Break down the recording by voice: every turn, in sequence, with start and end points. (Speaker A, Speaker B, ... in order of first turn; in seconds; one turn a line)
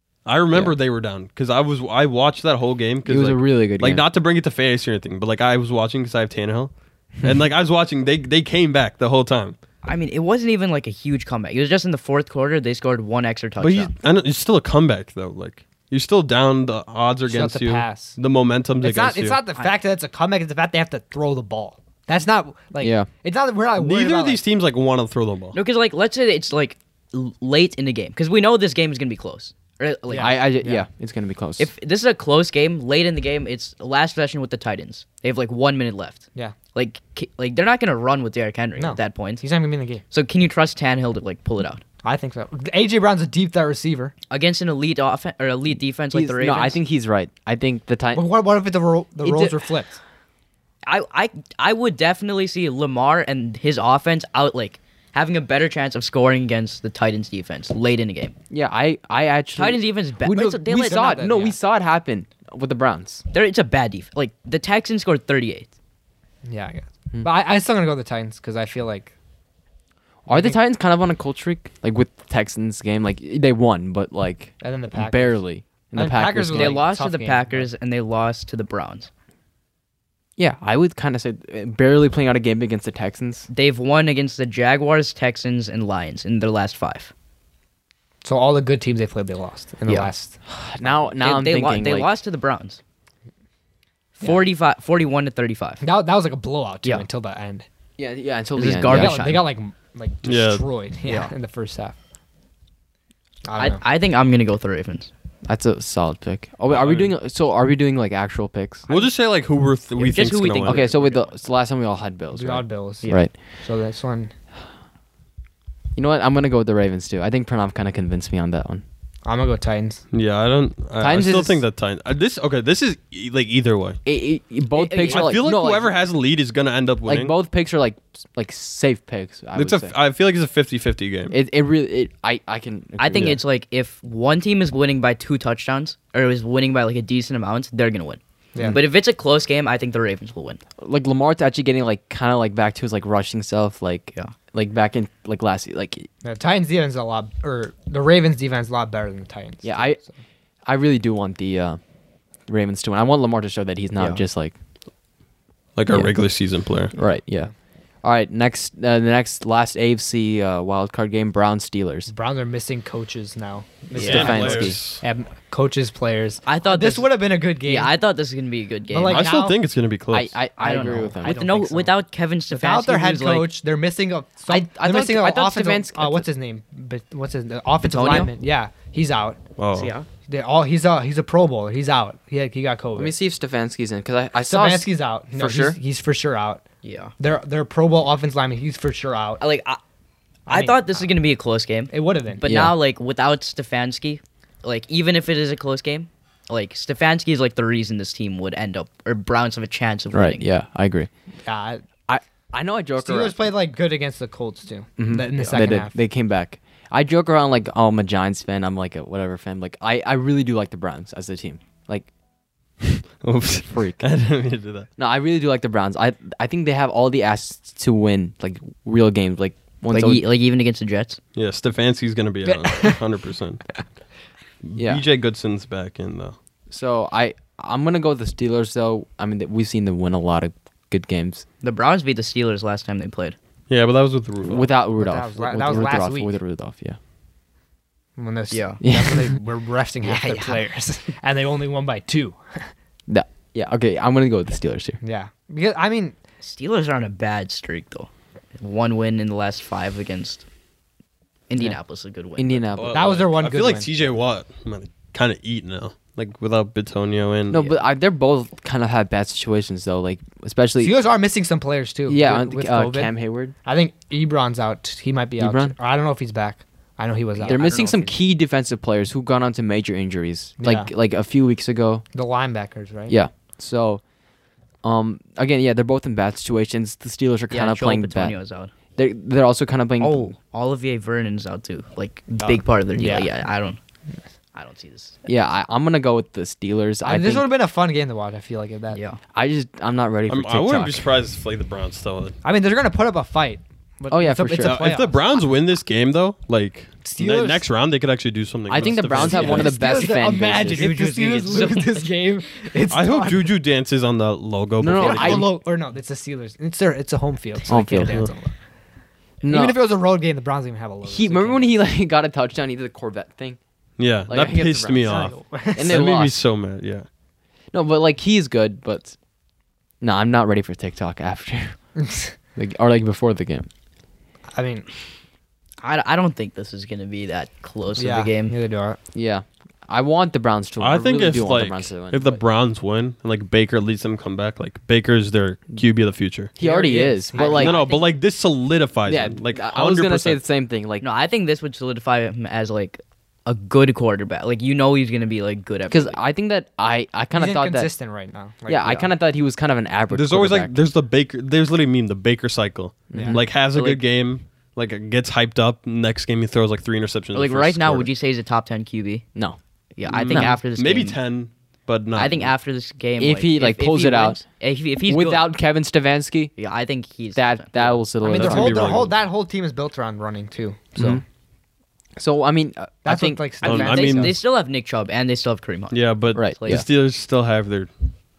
Speaker A: 0.2-9.6
Speaker B: 3.0-4.0
Speaker C: 9.8-13.9
Speaker A: 13.6-19.4
Speaker D: 17.3-18.2
Speaker D: 18.8-24.4
Speaker B: 22.8-23.1
Speaker A: 23.8-25.6
Speaker C: 25.5-30.4
Speaker D: 30.1-30.9
Speaker B: 30.2-31.7
Speaker C: 31.6-39.4
Speaker D: 38.8-40.0
Speaker C: 40.1-41.8
Speaker D: 42.0-44.1
Speaker C: 44.3-46.8
Speaker B: 46.1-48.2
Speaker D: 48.1-50.0
Speaker B: 49.2-49.6
Speaker C: 50.8-58.4
Speaker B: 58.5-63.2
Speaker C: 59.5-61.5
Speaker D: 60.9-61.5
Speaker C: 63.3-65.7
Speaker D: 66.5-69.1
Speaker B: 70.3-76.8
Speaker D: 70.3-70.6
Speaker D: 74.6-75.4
Speaker D: 75.9-77.7
Speaker C: 76.5-79.1
Speaker B: 80.4-83.5
Speaker C: 83.5-87.1
Speaker D: 88.2-91.0
Speaker B: 90.5-92.1
Speaker C: 91.2-92.8
Speaker C: 94.2-95.8
Speaker D: 95.8-97.7
Speaker B: 98.0-99.3
Speaker C: 98.5-99.5
Speaker D: 98.9-102.0
Speaker A: 100.2-100.6
Speaker C: 101.0-101.3
Speaker D: 103.4-103.8
Speaker C: 103.6-105.1
Speaker B: 105.5-108.8
Speaker A: 106.7-107.1
Speaker A: 108.9-110.8
Speaker C: 110.0-111.3
Speaker B: 110.6-113.3
Speaker D: 112.3-114.3
Speaker B: 116.0-118.8
Speaker D: 119.2-120.0
Speaker A: 120.1-124.0
Speaker B: 121.0-121.6
Speaker B: 124.0-125.9
Speaker C: 124.7-125.4
Speaker A: 125.1-127.3
Speaker B: 127.0-129.9
Speaker A: 129.5-131.3
Speaker B: 131.3-133.4
Speaker C: 133.0-140.6
Speaker B: 140.8-146.1
Speaker D: 146.2-150.1
Speaker B: 149.6-150.0
Speaker B: 150.7-151.8
Speaker B: 152.5-154.5
Speaker A: 155.8-156.9
Speaker B: 155.9-156.1
Speaker B: 156.9-157.5
Speaker B: 158.0-162.1
Speaker D: 162.1-167.9
Speaker A: 163.9-165.0
Speaker C: 163.9-164.4
Speaker B: 164.0-164.8
Speaker C: 166.4-167.1
Speaker C: 167.6-169.3
Speaker D: 168.9-169.6
Speaker A: 169.1-170.3
Speaker B: 170.1-171.4
Speaker C: 170.6-173.5
Speaker D: 171.2-171.9
Speaker D: 172.5-179.4
Speaker B: 174.5-176.3
Speaker C: 177.8-178.3
Speaker A: 179.6-179.9
Speaker C: 179.7-180.1
Speaker D: 180.3-183.1
Speaker B: 182.9-185.8
Speaker D: 184.4-186.6
Speaker C: 186.8-187.1
Speaker D: 187.2-189.4
Speaker C: 189.4-189.8
Speaker D: 190.5-191.1
Speaker C: 190.5-200.4
Speaker D: 191.9-192.4
Speaker B: 192.4-192.7
Speaker B: 200.1-201.1
Speaker D: 201.4-201.8
Speaker B: 202.1-203.4
Speaker D: 203.0-205.9
Speaker B: 205.0-212.1
Speaker A: 213.2-214.9
Speaker B: 213.7-214.0
Speaker B: 215.0-220.2
Speaker C: 219.9-221.2
Speaker A: 221.3-223.6
Speaker D: 222.4-223.0
Speaker A: 224.6-226.3
Speaker B: 224.8-225.0
Speaker B: 226.7-231.4
Speaker C: 231.6-233.3
Speaker A: 233.7-234.7
Speaker B: 234.5-237.0
Speaker D: 235.0-236.3
Speaker D: 238.2-242.7
Speaker C: 238.5-238.8
Speaker B: 238.8-239.3
Speaker C: 240.0-240.6
Speaker B: 243.1-245.0
Speaker D: 245.0-246.2
Speaker C: 246.4-250.4
Speaker C: 251.5-252.7
Speaker B: 252.4-253.0
Speaker A: 252.8-257.6
Speaker D: 252.9-253.9
Speaker B: 257.5-260.9
Speaker D: 260.8-263.1
Speaker B: 262.1-263.5
Speaker D: 263.6-267.9
Speaker B: 265.4-265.7
Speaker C: 267.4-268.1
Speaker B: 267.5-272.0
Speaker D: 270.6-270.9
Speaker D: 272.1-273.1
Speaker B: 273.1-274.0
Speaker B: 274.8-278.4
Speaker C: 277.5-278.7
Speaker B: 278.9-280.3
Speaker C: 280.0-283.8
Speaker D: 282.4-283.3
Speaker C: 284.5-285.2
Speaker B: 285.2-287.5
Speaker D: 287.0-289.0
Speaker C: 288.9-289.2
Speaker B: 289.3-291.1
Speaker A: 290.3-292.4
Speaker D: 292.4-295.2
Speaker B: 294.1-294.8
Speaker A: 294.6-299.7
Speaker D: 297.0-297.6
Speaker B: 298.7-300.9
Speaker D: 298.8-303.5
Speaker C: 299.9-302.1
Speaker A: 302.9-305.5
Speaker B: 304.8-305.5
Speaker D: 304.9-308.5
Speaker B: 307.7-308.2
Speaker B: 309.4-309.8
Speaker D: 309.5-311.6
Speaker B: 311.0-313.6
Speaker A: 314.0-317.1
Speaker B: 314.3-315.1
Speaker D: 315.0-316.0
Speaker B: 315.7-316.4
Speaker B: 317.7-319.1
Speaker B: 320.0-321.8
Speaker D: 322.0-322.3
Speaker B: 322.6-323.7
Speaker D: 324.5-324.9
Speaker C: 325.8-328.5
Speaker D: 327.9-329.0
Speaker B: 329.1-332.4
Speaker A: 330.8-336.5
Speaker B: 336.6-337.8
Speaker D: 336.6-337.8
Speaker C: 337.3-338.1
Speaker A: 337.5-340.4
Speaker B: 339.1-341.0
Speaker C: 341.0-346.2
Speaker B: 345.9-347.9
Speaker D: 347.3-349.1
Speaker B: 348.7-350.7
Speaker A: 350.1-358.1
Speaker B: 353.1-353.4
Speaker D: 353.1-353.4
Speaker C: 353.7-354.0
Speaker C: 357.3-359.2
Speaker C: 359.9-361.2
Speaker A: 360.1-362.5
Speaker B: 360.2-360.6
Speaker C: 362.1-365.4
Speaker B: 363.2-364.4
Speaker B: 365.1-366.5
Speaker C: 366.6-368.0
Speaker B: 367.3-369.0
Speaker D: 368.2-371.2
Speaker A: 368.3-369.1
Speaker B: 370.9-371.2
Speaker B: 372.2-373.8
Speaker D: 373.0-374.3
Speaker A: 373.6-374.4
Speaker C: 373.7-376.8
Speaker A: 375.9-377.9
Speaker B: 376.3-376.8